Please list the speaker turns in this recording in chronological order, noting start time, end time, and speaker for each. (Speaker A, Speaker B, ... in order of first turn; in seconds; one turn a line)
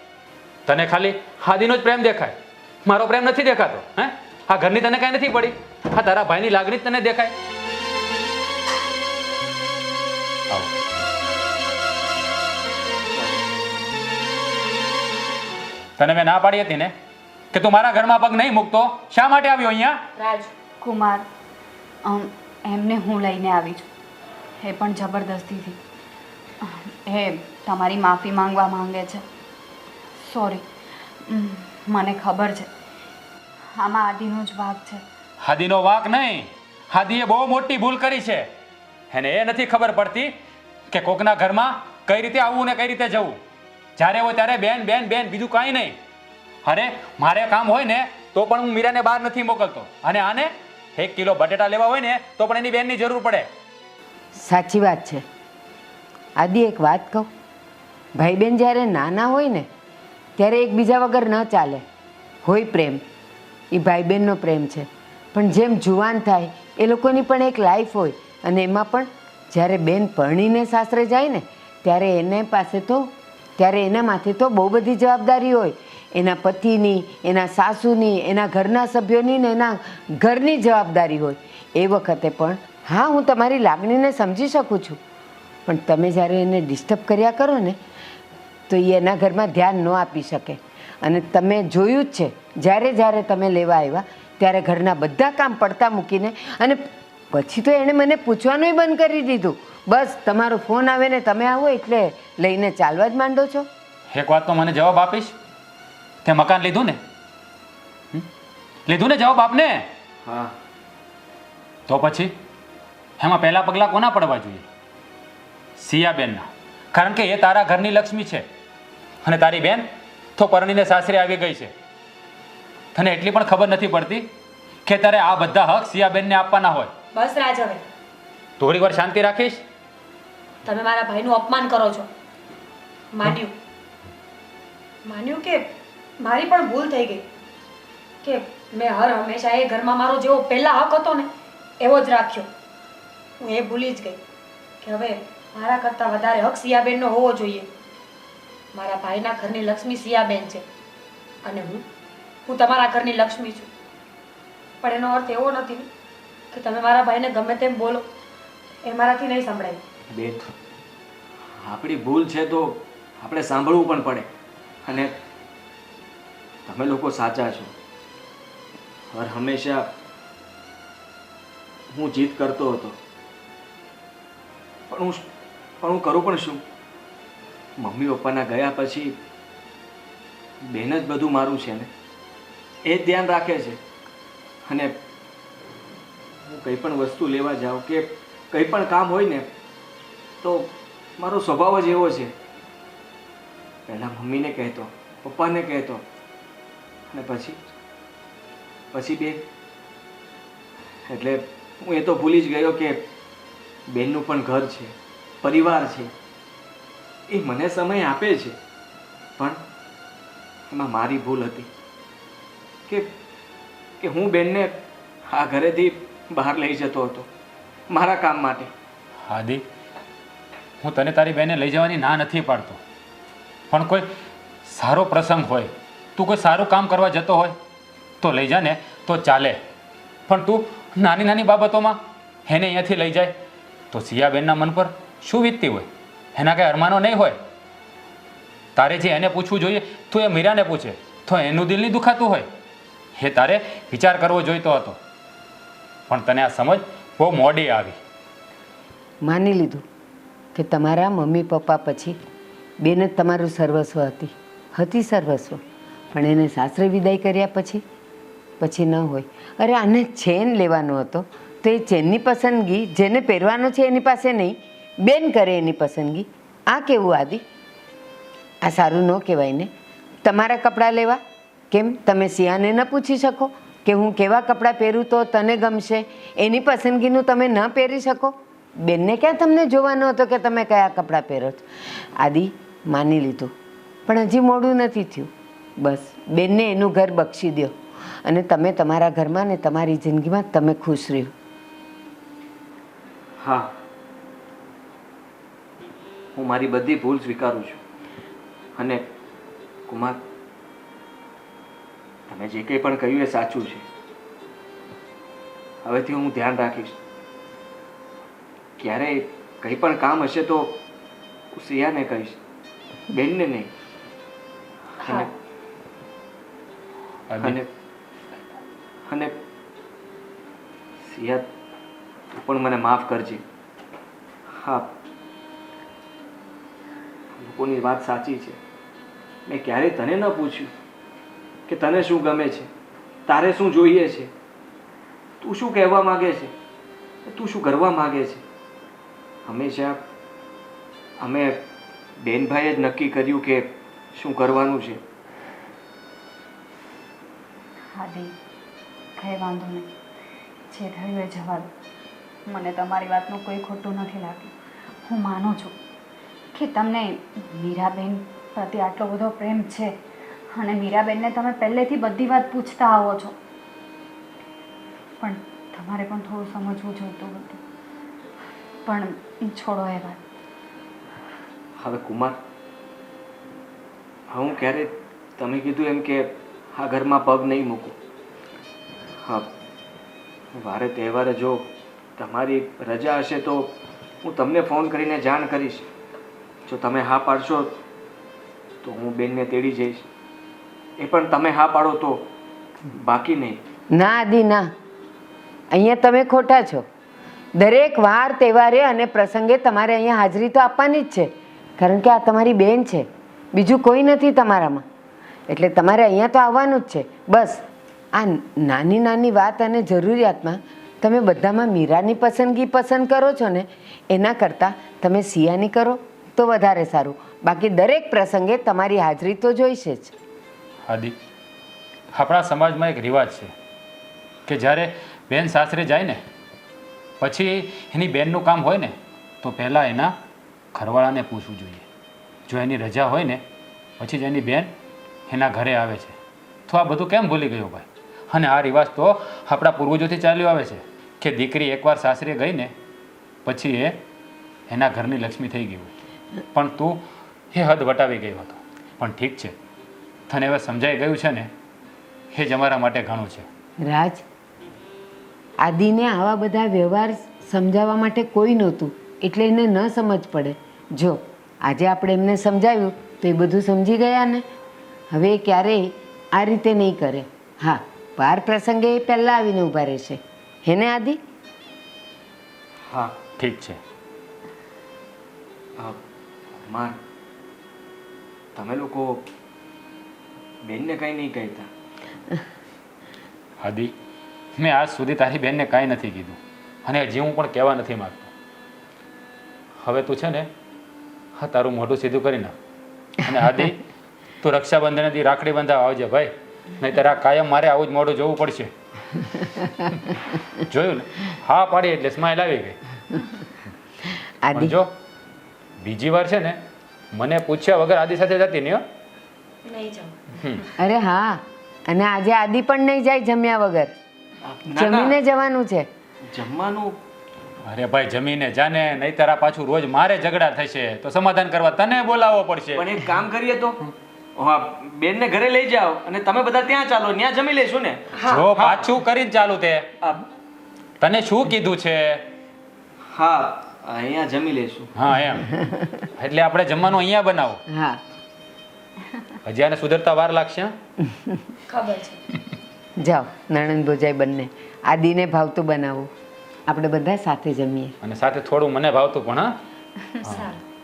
Speaker A: 0.7-7.3
Speaker B: 13.2-13.4
Speaker A: 16.0-16.9
Speaker A: 17.5-20.0
Speaker C: 20.2-20.5
Speaker D: 20.8-21.2
Speaker D: 22.0-23.9
Speaker D: 24.6-25.8
Speaker D: 26.6-29.2
Speaker D: 30.2-30.6
Speaker D: 31.3-32.7
Speaker D: 33.8-35.0
Speaker A: 35.4-38.5
Speaker A: 39.1-40.3
Speaker A: 40.9-43.4
Speaker A: 44.0-46.0
Speaker A: 46.6-53.5
Speaker E: 54.4-55.2
Speaker E: 56.4-57.3
Speaker E: 58.2-59.7
Speaker E: 60.4-61.8
Speaker E: 62.5-63.0
Speaker E: 63.7-85.0
Speaker E: 85.7-87.8
Speaker E: 88.7-96.8
Speaker E: 97.3-103.7
Speaker A: 104.1-105.3
Speaker A: 106.2-107.0
Speaker A: 108.9-109.9
Speaker B: 110.2-110.5
Speaker A: 111.9-112.3
Speaker A: 113.2-114.7
Speaker A: 115.8-118.5
Speaker A: 119.2-121.7
Speaker A: 123.0-124.3
Speaker A: 124.9-126.9
Speaker C: 127.1-127.8
Speaker A: 128.6-129.6
Speaker C: 130.7-132.1
Speaker C: 133.1-133.5
Speaker C: 135.1-137.2
Speaker C: 138.2-142.5
Speaker C: 143.4-144.2
Speaker C: 144.8-147.7
Speaker C: 148.7-150.7
Speaker C: 151.4-151.8
Speaker C: 152.5-153.7
Speaker C: 154.8-155.9
Speaker C: 156.5-158.1
Speaker C: 158.8-159.8
Speaker B: 160.1-160.5
Speaker B: 161.6-164.3
Speaker B: 164.8-165.2
Speaker B: 166.7-167.7
Speaker B: 169.1-169.9
Speaker B: 171.9-173.0
Speaker B: 174.9-175.2
Speaker B: 175.8-176.6
Speaker B: 177.8-179.2
Speaker B: 180.7-181.9
Speaker B: 182.8-183.8
Speaker B: 184.7-184.9
Speaker B: 186.5-189.5
Speaker B: 190.4-192.3
Speaker B: 193.9-196.0
Speaker B: 197.1-197.6
Speaker B: 198.9-199.4
Speaker B: 201.1-203.1
Speaker B: 203.9-206.1
Speaker B: 207.3-208.6
Speaker B: 210.7-211.7
Speaker B: 214.0-217.3
Speaker B: 217.9-218.7
Speaker A: 219.2-219.6
Speaker A: 220.8-222.8
Speaker A: 223.7-224.1
Speaker A: 224.7-227.6
Speaker A: 228.2-229.6
Speaker A: 230.3-233.3
Speaker A: 233.9-237.4
Speaker A: 238.8-242.5
Speaker A: 243.2-245.0
Speaker A: 246.1-248.0
Speaker E: 249.2-249.8
Speaker E: 250.6-252.2
Speaker E: 252.8-255.6
Speaker E: 256.1-257.8
Speaker E: 258.6-267.4
Speaker E: 268.6-269.7
Speaker E: 270.2-271.2
Speaker E: 271.7-283.5
Speaker E: 284.1-291.3
Speaker B: 293.4-293.7
Speaker B: 296.4-297.8
Speaker B: 298.8-299.0
Speaker B: 299.9-300.2
Speaker B: 302.3-303.9
Speaker B: 305.8-306.9
Speaker B: 308.8-310.8
Speaker B: 311.5-312.4
Speaker B: 313.1-313.7
Speaker C: 315.0-315.3
Speaker A: 317.3-317.6
Speaker B: 317.4-317.7
Speaker B: 319.1-319.3
Speaker B: 321.0-321.5
Speaker B: 322.3-323.4
Speaker B: 324.6-324.9
Speaker B: 327.4-328.6
Speaker B: 329.5-330.7
Speaker B: 331.7-332.7
Speaker B: 333.3-334.3
Speaker B: 335.4-336.5
Speaker B: 337.3-338.4
Speaker B: 339.5-340.0
Speaker B: 341.2-341.6
Speaker B: 342.2-345.0
Speaker D: 347.9-348.3
Speaker D: 349.2-349.9
Speaker D: 350.7-351.7
Speaker D: 352.5-354.5
Speaker D: 355.1-355.8
Speaker D: 356.5-360.0
Speaker D: 360.5-363.4
Speaker D: 365.2-367.6
Speaker D: 368.9-370.2
Speaker B: 371.8-372.4
Speaker B: 374.3-377.9
Speaker B: 379.2-379.5
Speaker B: 380.6-383.7
Speaker B: 384.2-385.9
Speaker B: 386.7-387.8
Speaker B: 388.8-390.1
Speaker B: 391.0-392.3
Speaker B: 392.9-393.6
Speaker E: 393.9-394.7
Speaker E: 395.7-396.9
Speaker E: 397.6-404.9
Speaker E: 405.5-407.6
Speaker E: 408.2-420.1
Speaker A: 420.9-421.1
Speaker A: 422.1-423.5
Speaker A: 424.5-426.2
Speaker A: 427.2-430.2
Speaker A: 430.7-431.9
Speaker A: 432.5-433.4
Speaker A: 434.0-434.7
Speaker A: 435.3-436.1
Speaker A: 436.7-442.7
Speaker A: 443.4-444.0
Speaker A: 444.7-445.9
Speaker A: 446.5-447.0
Speaker A: 447.5-449.6
Speaker A: 450.3-451.5
Speaker A: 452.3-453.5
Speaker E: 453.8-454.2
Speaker E: 455.6-464.4
Speaker E: 465.1-471.2
Speaker A: 473.4-473.8
Speaker B: 476.7-477.0
Speaker B: 478.6-479.2
Speaker B: 480.6-481.7
Speaker A: 483.6-483.9
Speaker A: 484.6-488.3
Speaker A: 489.8-490.5
Speaker A: 491.4-492.6
Speaker A: 493.2-493.8
Speaker A: 494.4-498.7
Speaker A: 499.9-502.8
Speaker E: 504.4-504.8
Speaker A: 504.6-504.9
Speaker A: 505.8-506.6
Speaker A: 507.1-508.8
Speaker C: 509.6-510.2
Speaker E: 510.8-513.9
Speaker B: 514.4-515.2
Speaker E: 514.8-515.9
Speaker B: 516.2-517.0
Speaker A: 517.6-522.9
Speaker B: 522.8-528.8
Speaker A: 528.3-529.9
Speaker A: 531.0-532.2
Speaker B: 533.1-534.9
Speaker A: 535.0-535.5
Speaker A: 536.2-537.6
Speaker E: 537.7-538.0
Speaker A: 539.4-540.7
Speaker C: 541.7-542.2
Speaker E: 543.0-546.1
Speaker E: 546.7-548.0
Speaker A: 548.0-549.5
Speaker A: 550.2-550.5
Speaker C: 550.2-550.6